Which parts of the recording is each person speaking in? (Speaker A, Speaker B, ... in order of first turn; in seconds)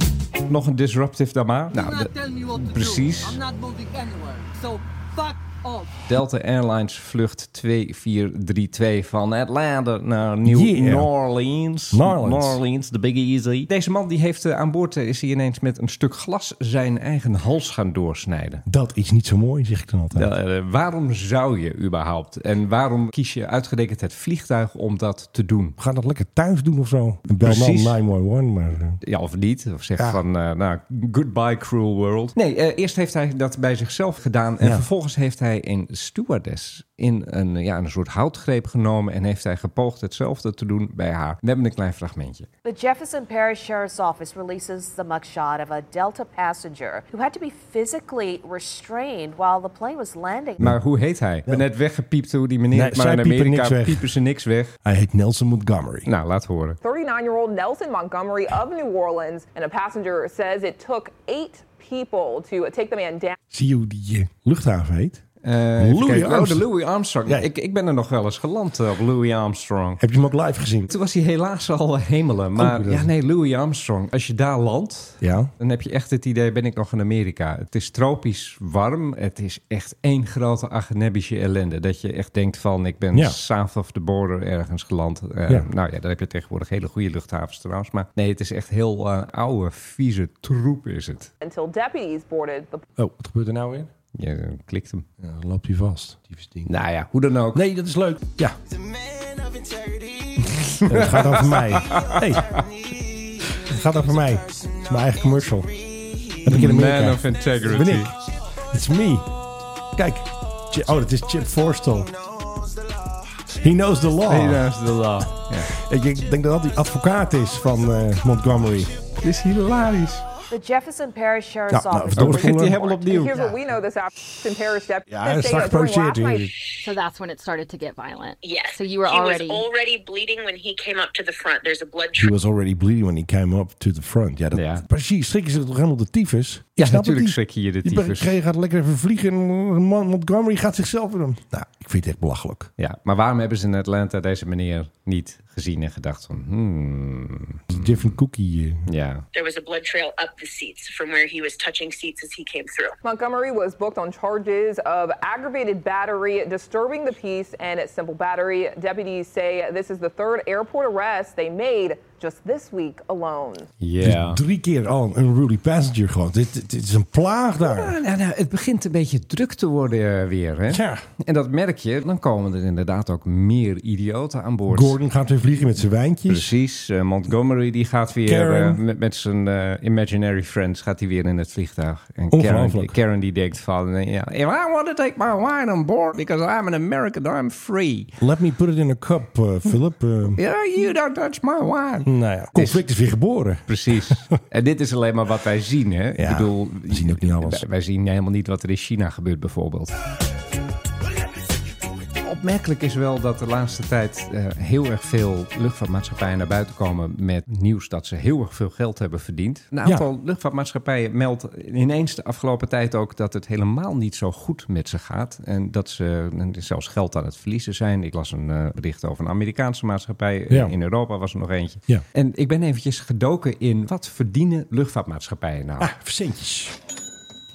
Speaker A: 0.5-3.4, 6.1-18.6, 20.1-25.8, 27.4-28.0, 29.0-42.5, 50.6-54.8, 56.1-56.8, 65.4-70.0, 70.9-91.3, 94.1-95.1, 96.7-97.6, 100.5-102.6, 106.5-108.1, 114.3-115.7, 119.2-120.3, 122.2-123.4, 134.5-134.8, 136.8-138.3, 142.8-148.1, 148.9-149.3, 163.8-164.4, 167.6-175.0, 176.3-188.2, 190.3-192.8, 193.7-199.9, 202.2-225.9
Speaker B: 1.7-5.9
Speaker C: 10.4-11.1, 11.9-12.6, 18.7-20.3, 25.8-29.0, 52.7-54.1, 54.8-56.1, 63.5-65.2, 65.8-66.7, 70.0-70.9, 72.6-73.1, 75.2-75.5, 93.0-93.9, 95.2-96.7, 97.5-98.6, 100.9-102.6, 103.5-108.2, 108.7-109.3, 110.0-112.1, 113.5-114.8, 115.7-119.0, 121.7-122.8, 125.1-126.5, 132.2-142.7, 147.7-148.9, 164.0-168.0, 170.7-171.0, 174.7-176.5, 178.2-178.8, 182.3-183.0, 188.2-190.4, 192.1-194.3, 196.2-197.6, 220.5-220.8, 225.8-226.8
Speaker D: 42.6-50.8, 120.5-123.5
Speaker E: 56.8-63.4, 91.4-92.8, 122.8-126.5, 153.0-163.7
Speaker F: 126.8-129.7
Speaker G: 128.4-132.3, 149.3-152.9